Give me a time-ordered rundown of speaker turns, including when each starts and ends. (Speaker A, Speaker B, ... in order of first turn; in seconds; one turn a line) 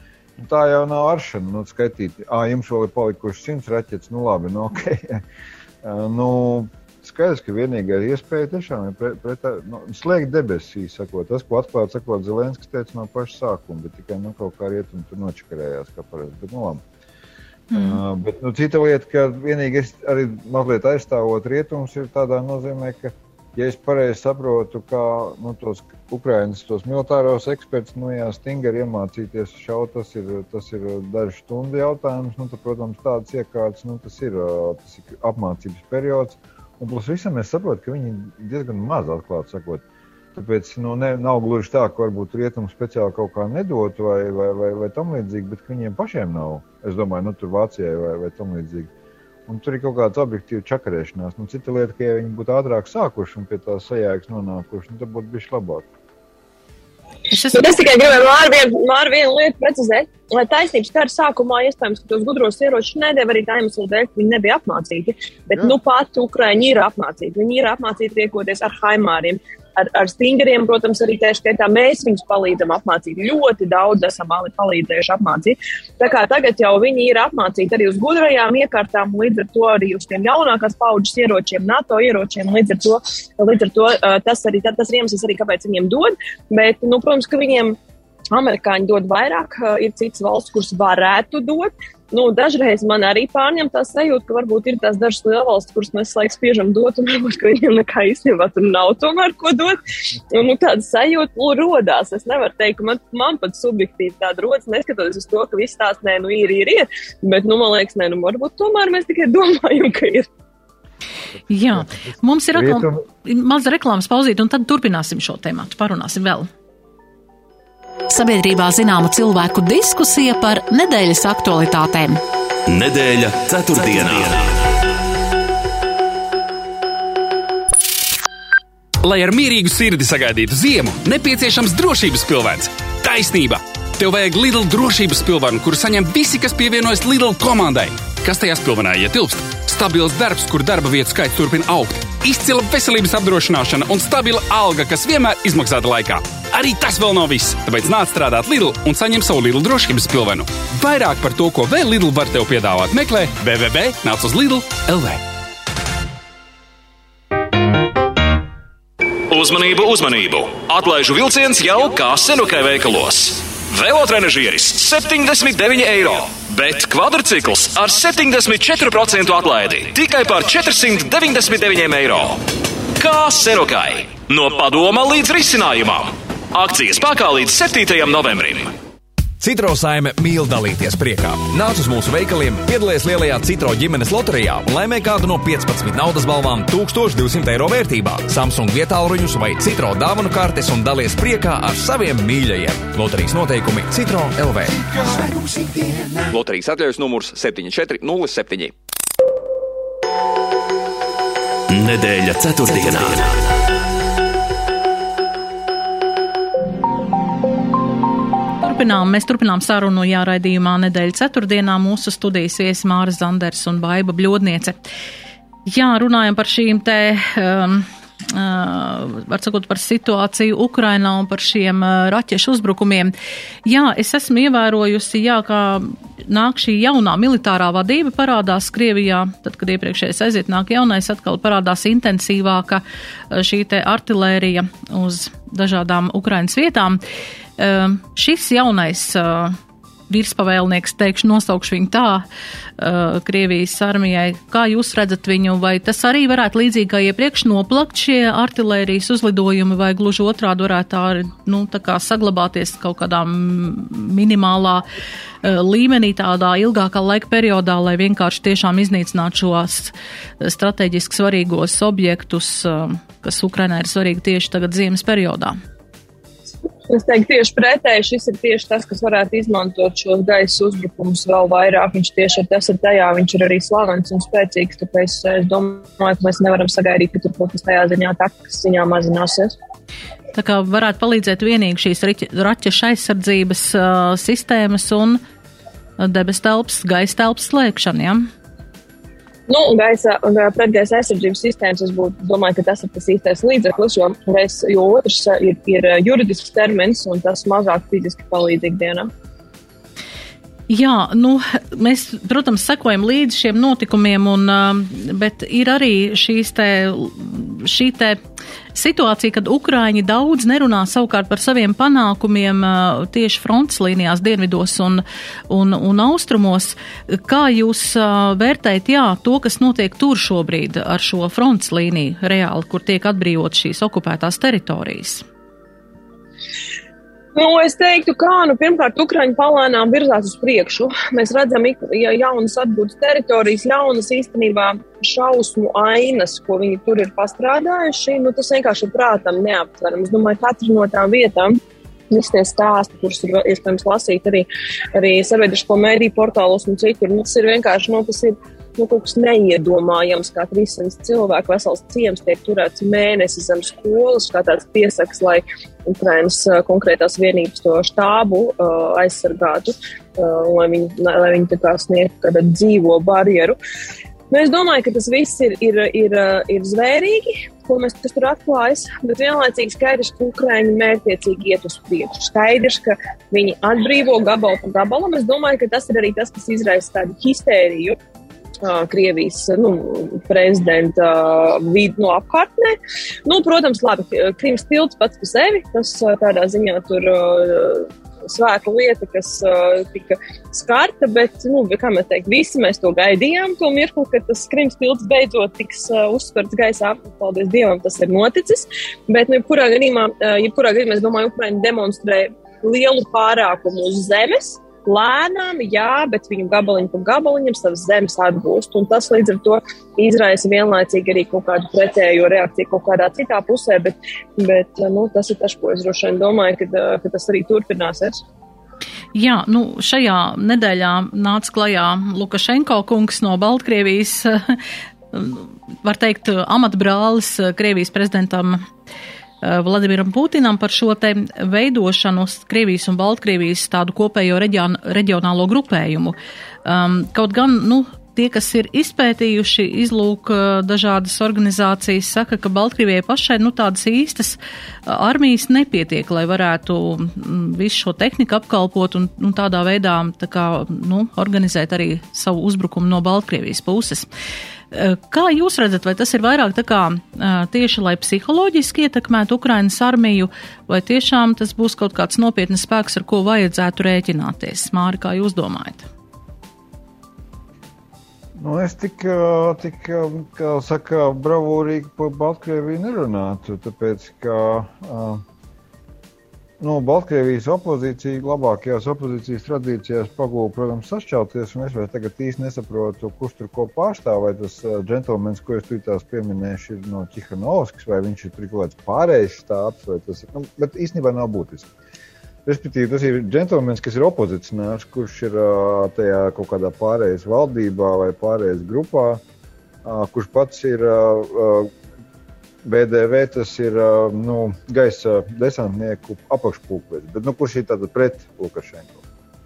Speaker A: 0.4-5.2
Speaker A: 5.8-16.8
Speaker B: 17.7-18.0
Speaker A: 17.7-39.8
Speaker A: 40.3-48.9
Speaker A: 49.5-55.9
Speaker B: 57.3-57.6
Speaker C: 57.5-87.8
Speaker C: 88.3-110.3
Speaker B: 111.5-116.5
Speaker A: 111.5-113.0
Speaker D: 118.1-122.2
Speaker E: 122.7-124.5
Speaker F: 129.0-155.2
Speaker G: 159.3-172.4
Speaker G: 172.9-178.7
Speaker H: 179.4-194.8
Speaker I: 196.3-198.7
Speaker E: 201.7-203.3
Speaker B: 208.6-214.8
Speaker B: 215.7-223.1
Speaker B: 223.6-237.0
Speaker B: 237.6-239.6
Speaker B: 240.1-242.2
Speaker B: 242.8-254.8
Speaker B: 255.4-265.6
Speaker C: 266.9-279.5
Speaker B: 280.3-285.2
Speaker B: 286.0-288.3
Speaker C: 289.5-299.1
Speaker B: 300.7-308.2
Speaker B: 308.7-325.2
Speaker C: 327.3-341.6
Speaker C: 342.1-363.6
Speaker C: 364.3-378.0
Speaker C: 378.6-418.2
Speaker B: 419.1-424.6
Speaker B: 425.1-428.6
Speaker B: 429.4-454.1
Speaker B: 454.7-465.9
Speaker A: 468.4-475.2
Speaker A: 476.6-491.7
Speaker A: 492.4-499.2
Speaker A: 499.8-501.7
Speaker A: 502.6-509.0